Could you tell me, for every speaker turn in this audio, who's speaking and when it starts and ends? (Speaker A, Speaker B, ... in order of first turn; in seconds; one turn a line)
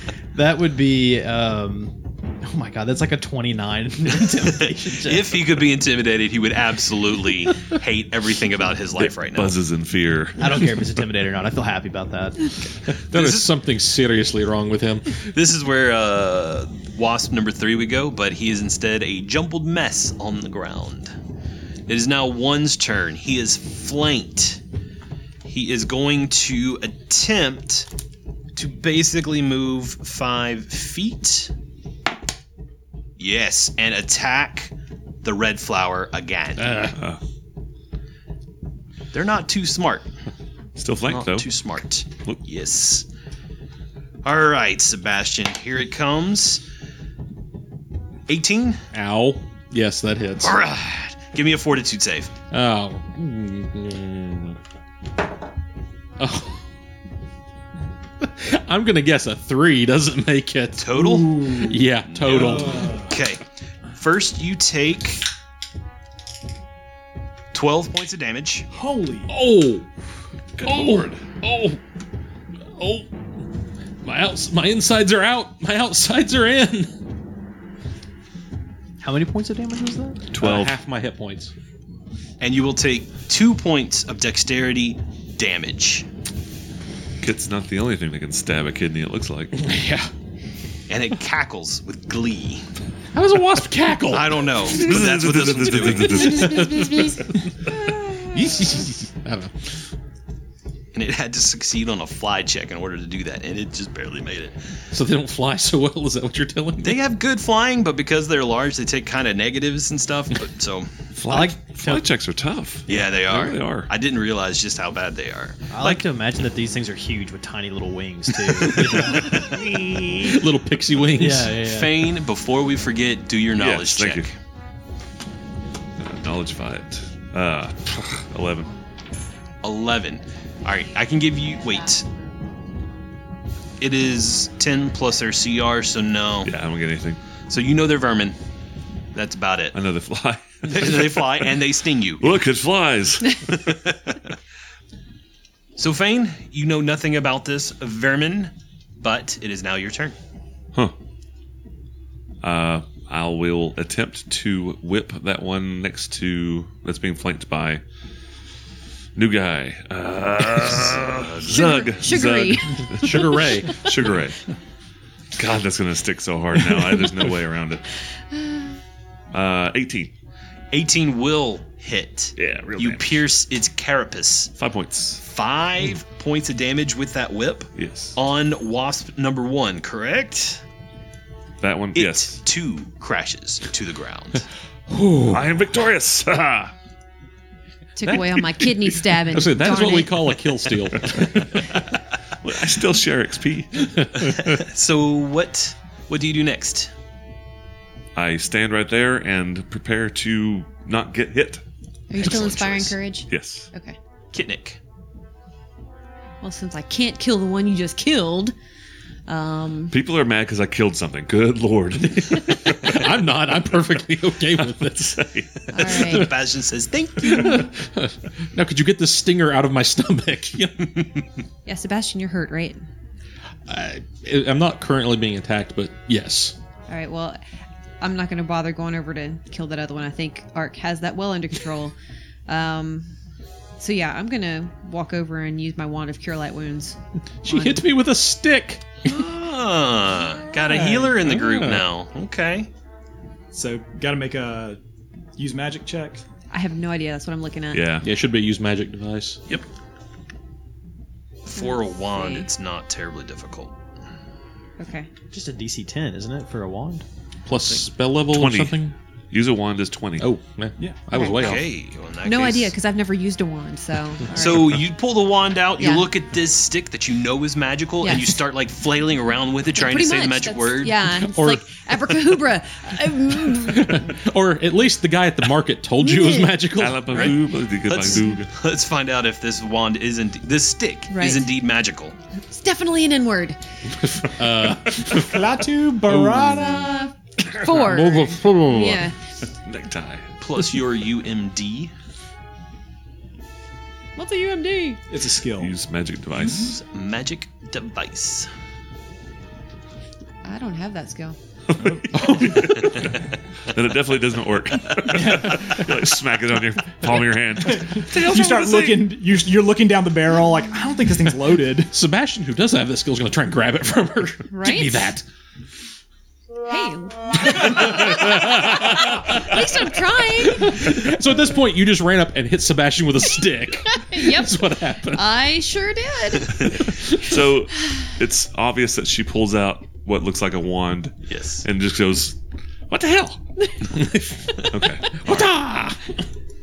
Speaker A: 0.3-5.4
Speaker B: 4.4-9.5
Speaker C: 9.0-10.8
Speaker A: 10.4-12.5
Speaker B: 13.1-13.5
Speaker D: 13.1-15.2
Speaker B: 15.2-21.1
Speaker B: 21.9-24.6
Speaker B: 25.4-27.9
Speaker B: 28.6-31.5
Speaker B: 33.2-37.0
Speaker D: 36.6-37.0
Speaker B: 39.1-40.1
Speaker C: 40.8-41.5
Speaker B: 41.1-43.0
Speaker B: 44.2-46.6
Speaker B: 48.3-48.8
Speaker D: 48.9-50.6
Speaker B: 50.4-52.3
Speaker D: 52.5-54.6
Speaker D: 56.2-56.6
Speaker D: 58.2-63.0
Speaker B: 60.8-61.5
Speaker E: 61.0-61.8
Speaker B: 62.1-65.2
Speaker E: 62.3-63.1
Speaker B: 67.5-68.7
Speaker E: 68.7-69.3
Speaker D: 69.3-69.9
Speaker C: 70.5-71.3
Speaker D: 70.6-71.8
Speaker D: 72.7-73.1
Speaker D: 74.0-76.9
Speaker A: 79.0-80.2
Speaker C: 80.3-80.7
Speaker D: 80.4-81.5
Speaker B: 82.4-86.0
Speaker C: 87.2-89.6
Speaker D: 89.5-90.1
Speaker B: 90.9-92.6
Speaker D: 93.1-95.0
Speaker B: 94.1-96.7
Speaker C: 94.7-97.2
Speaker D: 96.2-97.2
Speaker D: 98.3-99.5
Speaker B: 100.9-104.6
Speaker D: 104.9-107.0
Speaker B: 106.8-110.9
Speaker C: 111.2-113.9
Speaker A: 111.3-112.0
Speaker B: 112.9-116.0
Speaker A: 115.7-119.5
Speaker D: 118.6-121.6
Speaker A: 121.1-122.0
Speaker B: 121.7-124.3
Speaker C: 123.5-124.3
Speaker C: 126.0-128.7
Speaker B: 129.6-132.0
Speaker B: 133.8-136.5
Speaker C: 136.4-137.2
Speaker B: 137.5-138.3
Speaker B: 139.1-139.8
Speaker C: 139.7-141.6
Speaker B: 140.6-142.4
Speaker C: 142.2-143.7
Speaker B: 143.6-144.0
Speaker B: 145.8-150.2
Speaker C: 152.4-157.8
Speaker C: 159.2-164.4
Speaker B: 160.6-161.8
Speaker F: 161.5-162.9
Speaker D: 162.9-163.9
Speaker C: 165.3-167.8
Speaker C: 169.3-170.1
Speaker B: 170.7-174.5
Speaker C: 172.3-173.3
Speaker C: 174.6-175.2
Speaker B: 175.2-180.6
Speaker C: 177.8-178.2
Speaker C: 181.6-182.4
Speaker B: 181.9-184.4
Speaker D: 184.9-185.5
Speaker C: 185.2-186.7
Speaker F: 188.0-190.3
Speaker D: 188.0-191.8
Speaker C: 191.1-191.6
Speaker C: 192.4-194.4
Speaker B: 194.3-196.9
Speaker C: 198.2-201.6
Speaker F: 202.1-204.0
Speaker C: 202.2-202.8
Speaker B: 202.4-202.8
Speaker C: 203.3-203.7
Speaker B: 204.3-204.8
Speaker F: 206.4-208.5
Speaker F: 209.3-209.9
Speaker C: 209.9-213.1
Speaker D: 212.0-215.3
Speaker C: 214.6-215.7
Speaker F: 215.7-216.3
Speaker B: 215.9-217.7
Speaker D: 215.9-216.3
Speaker D: 217.2-221.1
Speaker F: 221.7-222.8
Speaker D: 223.7-226.5
Speaker F: 226.9-227.4
Speaker F: 228.0-231.9
Speaker F: 232.5-233.1
Speaker F: 233.8-237.0
Speaker D: 237.4-238.8
Speaker F: 237.5-237.8
Speaker B: 239.0-242.7
Speaker D: 240.7-241.8
Speaker E: 240.7-241.1
Speaker E: 243.5-244.8
Speaker E: 245.4-246.2
Speaker F: 246.5-247.9
Speaker C: 247.7-248.1
Speaker D: 248.0-249.4
Speaker B: 251.4-253.8
Speaker F: 251.6-252.5
Speaker F: 254.8-255.1
Speaker A: 255.3-257.0
Speaker D: 257.4-258.9
Speaker C: 258.3-260.3
Speaker D: 260.2-261.7
Speaker F: 261.1-261.6
Speaker B: 261.2-262.7
Speaker F: 262.2-264.9
Speaker B: 264.3-271.0
Speaker F: 265.8-266.1
Speaker F: 268.0-268.4
Speaker F: 269.7-274.2
Speaker D: 271.1-272.4
Speaker D: 273.3-277.4
Speaker F: 276.0-276.6
Speaker C: 276.8-278.5
Speaker B: 277.1-282.1
Speaker F: 281.1-281.4
Speaker F: 282.5-283.6
Speaker D: 284.1-285.4
Speaker E: 285.1-287.0
Speaker D: 286.0-286.9
Speaker F: 286.6-289.1
Speaker D: 287.6-289.1
Speaker C: 289.6-290.4
Speaker B: 290.4-291.9
Speaker F: 294.1-295.0
Speaker E: 295.1-295.7
Speaker C: 295.6-296.8
Speaker B: 296.5-298.5
Speaker F: 300.4-301.4
Speaker C: 301.7-308.9
Speaker E: 301.8-302.0
Speaker D: 302.1-303.1
Speaker E: 305.1-305.7
Speaker D: 305.3-305.8
Speaker E: 307.7-311.9
Speaker D: 311.9-315.2
Speaker F: 314.5-315.1
Speaker F: 316.6-321.0
Speaker D: 317.5-319.8
Speaker D: 320.4-325.3
Speaker F: 323.9-326.9
Speaker C: 327.1-332.4
Speaker B: 331.3-331.6
Speaker D: 332.9-333.4
Speaker D: 333.9-334.4
Speaker C: 334.6-335.5
Speaker D: 335.1-336.1